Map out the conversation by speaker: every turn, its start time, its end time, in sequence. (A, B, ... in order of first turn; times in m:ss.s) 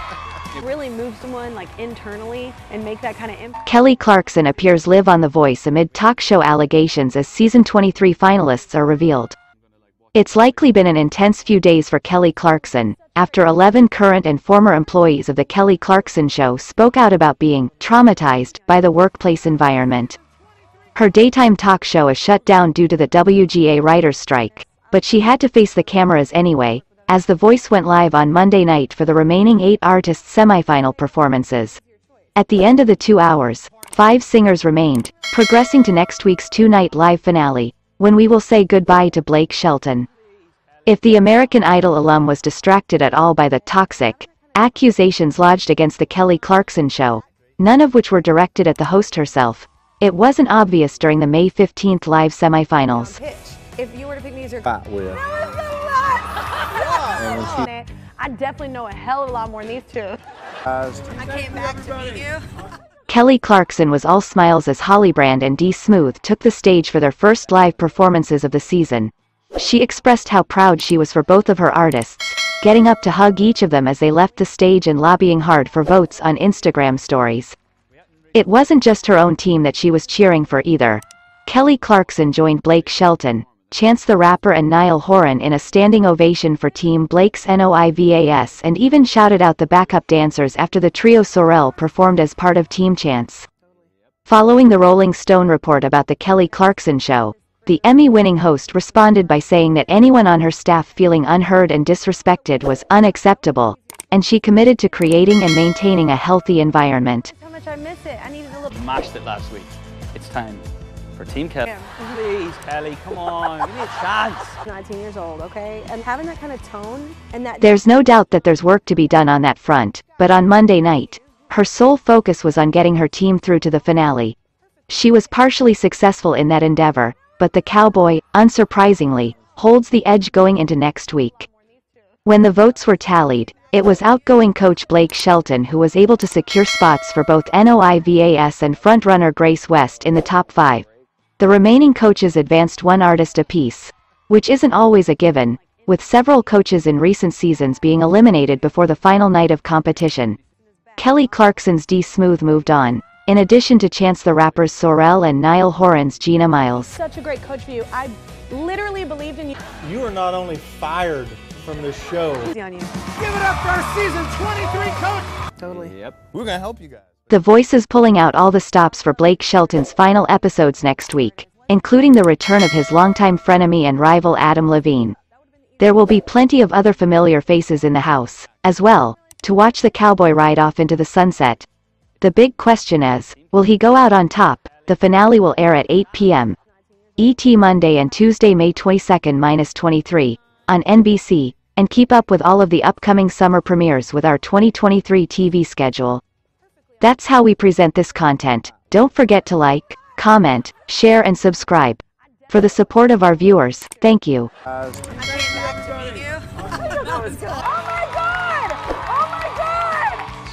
0:00.6-0:03.6 A
0:03.6-0:09.4 B
0:10.1-0:20.2 B
0:20.9-0:31.8 B
0:32.4-0:40.1 B
0:40.8-0:53.2 B
0:52.9-1:00.2 A
0:54.8-0:55.1 C
0:57.2-0:57.6 C
1:00.8-1:01.2 C
1:01.1-1:02.4 A
1:03.1-1:17.6 B
1:18.3-1:33.5 B
1:34.2-1:47.3 B
1:47.3-1:48.8 A
1:48.7-1:54.6 D
1:51.6-1:52.2 A
1:54.6-1:57.8 A
1:57.6-2:04.4 B
2:04.9-2:11.5 B
2:12.2-2:20.8 B
2:21.4-2:30.4 B
2:31.0-2:37.0 B
2:36.9-2:39.6 A
2:39.8-2:42.5 E
2:42.4-2:42.9 A
2:43.2-2:45.2 E
2:45.6-2:45.9 A
2:45.6-2:46.3 D
2:46.4-2:47.0 C
2:47.3-2:55.2 B
2:55.8-3:01.6 B
3:02.2-3:06.6 B
3:07.2-3:16.2 B
3:17.0-3:24.5 B
3:24.8-3:25.1 C
3:25.1-3:30.3 A